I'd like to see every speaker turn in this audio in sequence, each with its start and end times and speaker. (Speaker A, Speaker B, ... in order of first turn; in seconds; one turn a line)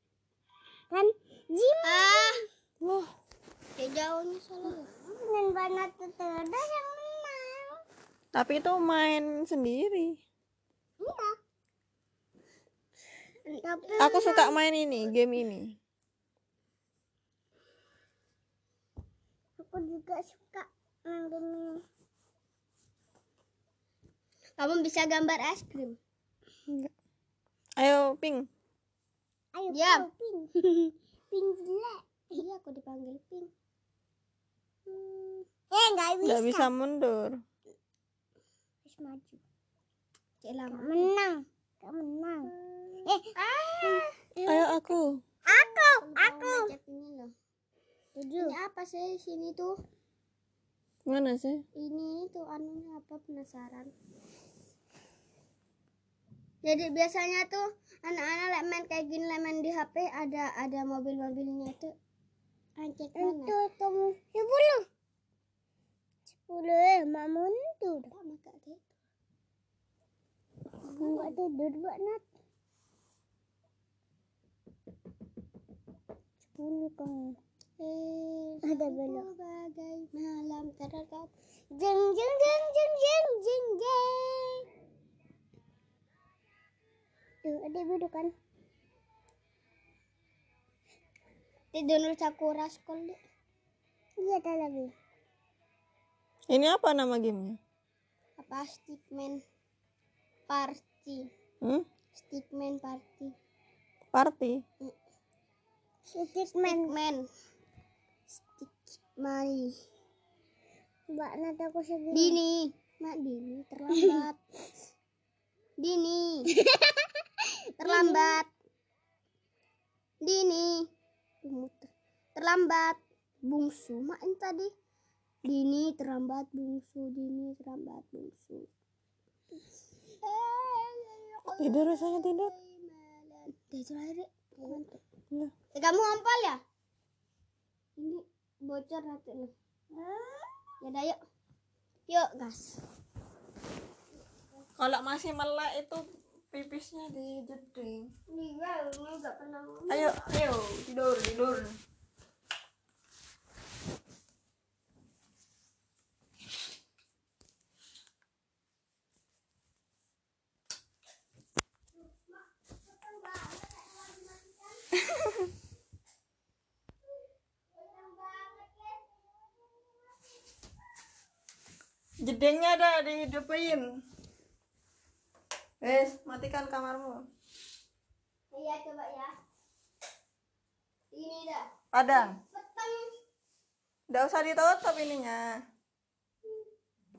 Speaker A: 0.9-2.4
Speaker B: 1.8-2.4
Speaker C: 2.8-3.1
Speaker B: 3.8-4.9
Speaker A: 4.6-7.8
Speaker C: 8.3-10.2
Speaker A: 11.0-11.3
Speaker B: 13.5-14.5
Speaker A: 13.6-14.4
Speaker C: 14.0-15.8
Speaker A: 19.6-21.8
Speaker B: 24.6-26.0
Speaker C: 27.8-28.5
Speaker A: 29.5-30.5
Speaker B: 29.7-30.1
Speaker B: 30.6-30.9
Speaker A: 31.3-32.4
Speaker B: 32.3-33.5
Speaker B: 34.9-35.5
Speaker A: 35.7-36.7
Speaker C: 36.2-37.4
Speaker A: 38.8-39.4
Speaker B: 40.4-41.1
Speaker A: 40.7-42.5
Speaker B: 42.5-44.1
Speaker A: 43.8-44.7
Speaker C: 44.5-45.2
Speaker A: 45.5-46.7
Speaker B: 45.5-47.3
Speaker A: 48.1-48.5
Speaker B: 48.4-49.7
Speaker C: 51.1-51.6
Speaker B: 51.8-53.9
Speaker B: 56.6-61.9
Speaker B: 62.8-63.5
Speaker A: 63.1-64.8
Speaker A: 66.3-68.1
Speaker B: 68.1-68.9
Speaker A: 70.8-72.2
Speaker B: 70.9-71.3
Speaker A: 76.5-77.4
Speaker B: 77.8-81.3
Speaker A: 78.6-79.3
Speaker A: 81.7-84.7
Speaker A: 87.4-88.3
Speaker B: 91.7-93.2
Speaker A: 94.2-94.9
Speaker C: 96.5-97.6
Speaker B: 98.4-99.4
Speaker B: 100.5-101.2
Speaker B: 102.1-103.3
Speaker C: 104.1-104.6
Speaker A: 106.1-106.9
Speaker B: 106.7-107.2
Speaker B: 108.5-109.8
Speaker A: 111.1-112.4
Speaker B: 112.1-114.3
Speaker A: 113.9-114.2
Speaker B: 115.8-116.5
Speaker A: 116.5-118.4
Speaker B: 117.8-118.5
Speaker B: 120.2-120.8
Speaker B: 121.4-124.7
Speaker B: 125.4-128.7
Speaker B: 130.2-135.0
Speaker C: 131.6-132.5
Speaker B: 135.7-136.6
Speaker B: 138.0-139.5
Speaker A: 140.0-140.5
Speaker B: 140.8-141.2
Speaker B: 142.1-142.8
Speaker C: 144.8-148.1
Speaker B: 148.3-150.1
Speaker C: 149.9-151.8
Speaker B: 161.9-164.8
Speaker C: 165.1-165.4
Speaker B: 167.7-170.1
Speaker C: 172.2-173.8
Speaker C: 175.8-177.2
Speaker B: 178.5-179.3
Speaker B: 181.1-183.1
Speaker C: 181.9-182.4
Speaker C: 184.1-185.6